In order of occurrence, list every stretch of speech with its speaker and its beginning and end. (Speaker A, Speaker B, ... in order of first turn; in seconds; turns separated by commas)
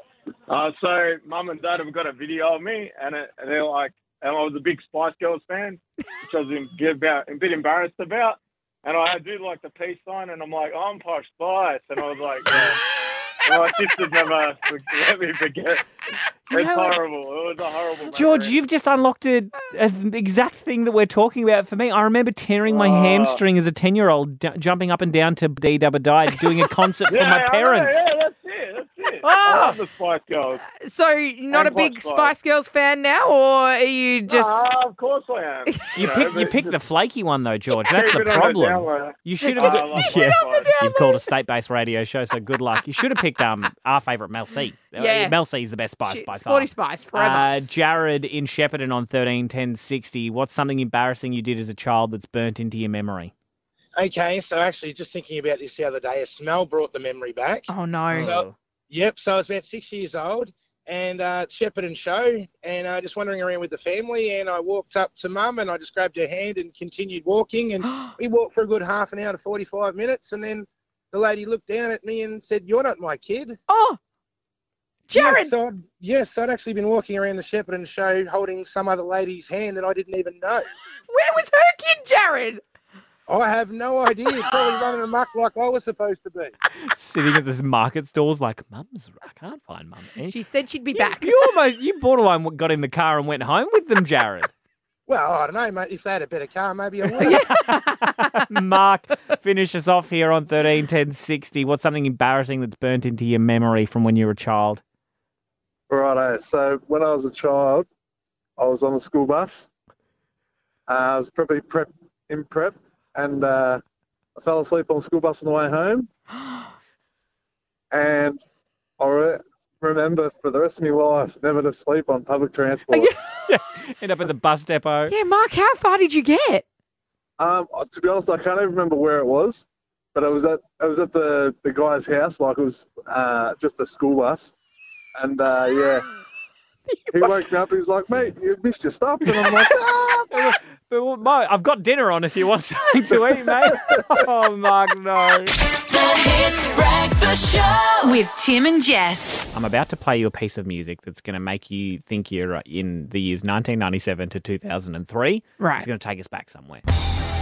Speaker A: 0.5-12.8, Speaker A: 13.4-15.8, Speaker B: 16.5-17.0, Speaker A: 16.5-18.5, Speaker B: 18.1-28.0, Speaker A: 22.6-23.4, Speaker A: 27.1-30.6, Speaker B: 29.2-29.8, Speaker C: 30.8-34.6, Speaker A: 31.5-32.3, Speaker A: 34.3-36.8, Speaker B: 35.9-53.3, Speaker A: 37.9-40.8, Speaker C: 39.6-41.2, Speaker C: 45.0-45.3, Speaker C: 46.0-47.5, Speaker D: 54.0-73.6, Speaker C: 57.7-58.4, Speaker B: 58.1-58.5, Speaker C: 73.7-74.0, Speaker C: 75.1-75.5, Speaker D: 75.1-80.7, Speaker C: 81.1-82.6, Speaker D: 83.3-86.5, Speaker B: 86.9-90.3, Speaker C: 90.3-91.3, Speaker B: 90.9-94.5, Speaker D: 95.1-97.4, Speaker B: 97.2-104.8, Speaker C: 97.2-98.2, Speaker E: 105.9-107.9, Speaker E: 108.6-109.7, Speaker E: 110.9-113.8, Speaker E: 114.4-116.1, Speaker E: 117.9-118.4, Speaker E: 119.0-123.1, Speaker B: 123.5-125.1, Speaker C: 125.1-126.6, Speaker E: 127.4-134.5, Speaker E: 135.2-136.1, Speaker E: 137.1-140.3, Speaker B: 139.2-139.7, Speaker B: 140.3-145.6, Speaker E: 143.4-143.8, Speaker F: 145.8-149.4, Speaker B: 149.5-156.8, Speaker C: 155.6-155.9